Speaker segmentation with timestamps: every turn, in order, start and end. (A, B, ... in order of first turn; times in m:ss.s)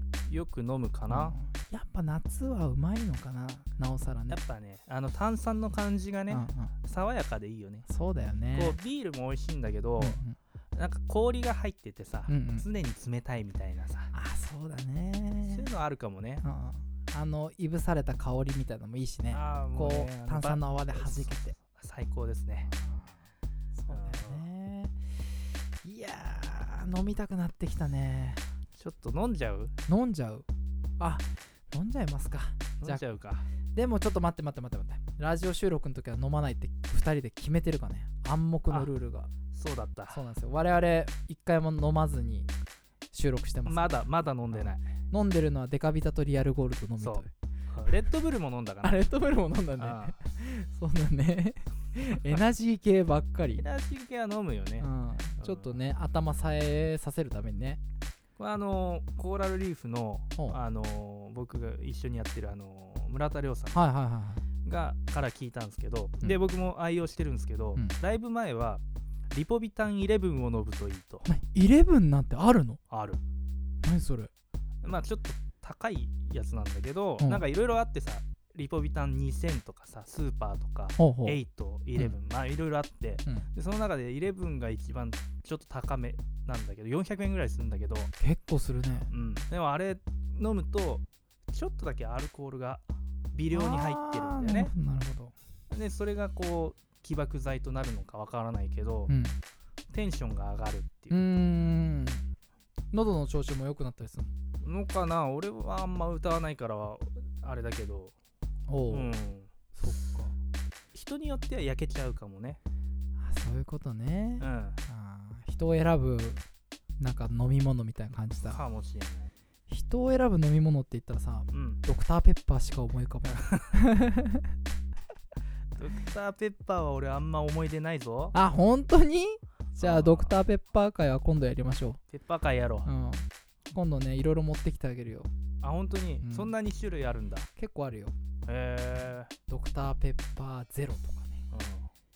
0:00.3-0:01.3 A
0:01.1-0:04.4 B
0:04.3-0:07.8 A
0:06.3-0:06.7 B
0:07.9-0:08.8 B
0:08.5-0:10.2 A
0:10.0-0:10.3 B
0:10.7-0:14.1 A
0:12.3-0:12.6 B
0:14.1-0:15.7 B
0:15.5-0:16.4 A
0:16.4-0:21.5 B
0:19.3-0:22.7 A
0:22.7-0:23.1 B
0:23.7-0:24.9 B
0:23.9-0:24.5 A
0:25.8-0:28.4 B
0:28.8-0:29.7 A
0:29.9-0:30.4 B
0:31.0-0:33.1 B
0:32.8-0:33.5 A
0:33.7-0:39.3 B
0:39.5-0:40.2 A
0:40.1-0:42.5 B
0:43.1-0:44.0 B
0:43.6-0:44.8 A
0:44.5-0:47.3 B
0:47.0-0:49.0 A
0:48.8-0:53.6 B
0:49.8-0:50.1 A
0:53.6-0:55.8 A
0:54.8-0:57.8 B
0:58.4-1:03.8 A
1:03.7-1:04.4 B
1:04.6-1:11.2 A
1:11.2-1:12.8 B
1:12.9-1:13.2 A
1:13.8-1:14.3 B
1:14.8-1:28.1 A
1:17.2-1:17.4 B
1:21.0-1:21.4 B
1:28.2-1:29.1 B
1:29.1-1:34.7 A
1:33.5-1:35.3 B
1:35.7-1:39.1 A
1:39.1-1:39.4 B
1:39.9-1:41.2 A
1:41.1-1:42.2 B
1:42.9-1:44.3 B
1:44.6-1:48.1 A
1:48.7-1:49.1 B
1:48.9-1:49.5 A
1:49.7-1:50.3 B
1:50.9-1:52.6 A
1:53.2-1:56.4 B
1:54.4-1:54.8 A
1:57.0-1:58.6 B
1:58.4-1:59.3 A
1:59.7-2:04.4 B
2:01.5-2:01.8 A
2:03.3-2:03.7 A
2:05.8-2:08.4 A
2:08.3-2:12.0 B
2:09.8-2:10.3 A
2:12.1-2:12.9 A
2:12.8-2:15.3 B
2:15.6-2:17.5 A
2:16.2-2:16.5 B
2:17.6-2:18.1 B
2:18.4-2:19.3 A
2:19.5-2:21.4 B
2:21.5-2:21.9 A